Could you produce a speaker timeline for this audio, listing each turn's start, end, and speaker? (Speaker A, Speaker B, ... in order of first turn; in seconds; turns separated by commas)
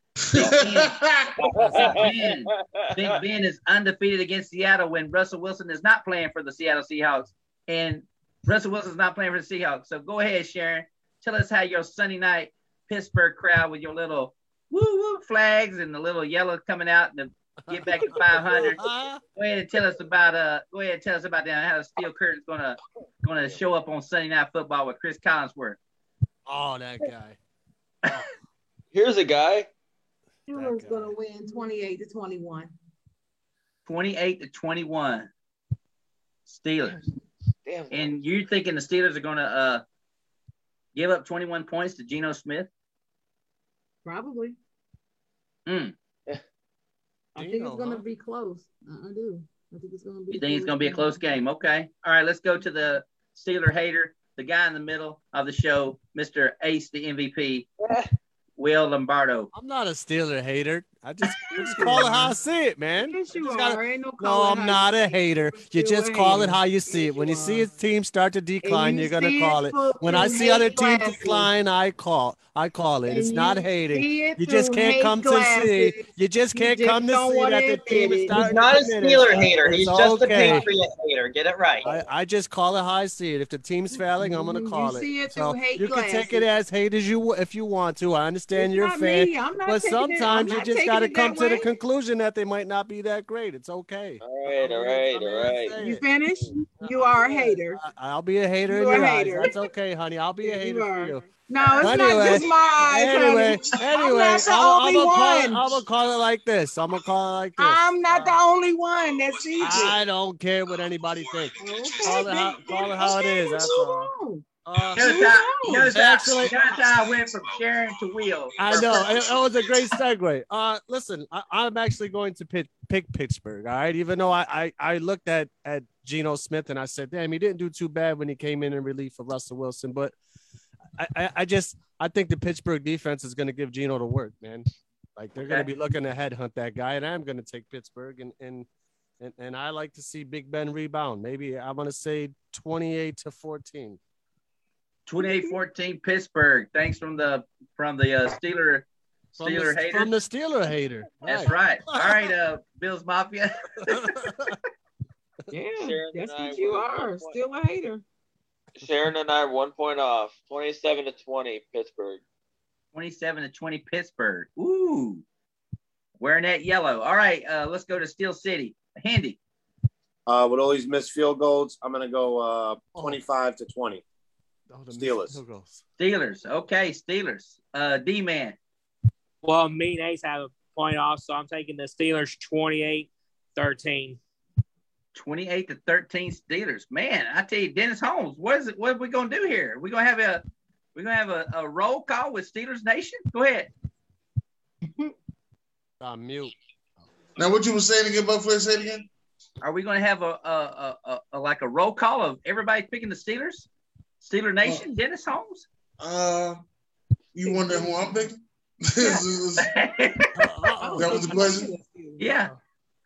Speaker A: 0.3-1.4, Speaker B: 0.3-1.0, Speaker C: 1.4-3.2, Speaker D: 1.6-2.0, Speaker B: 1.7-18.8, Speaker D: 17.6-19.2, Speaker B: 19.4-25.8, Speaker D: 26.5-27.4, Speaker C: 28.9-29.7, Speaker E: 30.5-32.7, Speaker D: 30.5-31.1, Speaker B: 33.9-35.3, Speaker B: 36.5-37.0, Speaker C: 37.6-38.3, Speaker B: 37.9-39.8, Speaker B: 40.9-42.7, Speaker E: 44.0-44.6, Speaker B: 45.6-45.9, Speaker E: 47.3-51.2, Speaker D: 47.4-48.0, Speaker B: 50.3-57.6, Speaker C: 57.8-58.1, Speaker B: 58.6-59.5, Speaker D: 59.5-80.7, Speaker E: 61.4-62.3, Speaker E: 63.0-67.7, Speaker E: 68.6-71.5, Speaker E: 73.1-78.7, Speaker F: 78.3-81.9, Speaker E: 80.3-80.7, Speaker D: 81.8-96.0, Speaker E: 83.9-86.5, Speaker E: 88.5-91.7, Speaker C: 94.2-95.8, Speaker E: 95.8-97.8, Speaker D: 96.8-108.4, Speaker E: 98.7-99.6, Speaker E: 100.4-105.8, Speaker E: 107.6-110.0, Speaker D: 109.6-114.1, Speaker E: 111.6-115.9, Speaker D: 114.6-116.5, Speaker B: 115.0-119.0, Speaker D: 118.6-130.1, Speaker D: 131.0-138.7, Speaker B: 135.4-135.7, Speaker D: 139.2-144.0, Speaker B: 145.1-150.1, Speaker D: 149.3-152.3, Speaker B: 151.2-154.0, Speaker D: 153.8-154.6, Speaker E: 155.5-158.0, Speaker C: 155.8-157.4, Speaker C: 158.8-162.2, Speaker B: 162.9-165.2, Speaker B: 166.2-169.4, Speaker G: 170.3-174.0, Speaker D: 172.9-173.2, Speaker D: 174.7-175.8, Speaker G: 174.9-175.4, Speaker B: 176.0-178.6, Speaker H: 179.4-184.2, Speaker B: 185.1-190.4, Speaker B: 190.9-193.7, Speaker D: 196.0-197.0, Speaker A: 197.4-199.1, Speaker B: 199.6-203.7, Speaker B: 204.2-205.7, Speaker A: 206.0-206.6, Speaker A: 207.3-209.7, Speaker E: 207.4-208.1, Speaker B: 209.6-210.2, Speaker D: 210.3-211.4, Speaker E: 210.8-212.2, Speaker A: 211.0-211.7, Speaker B: 212.2-212.5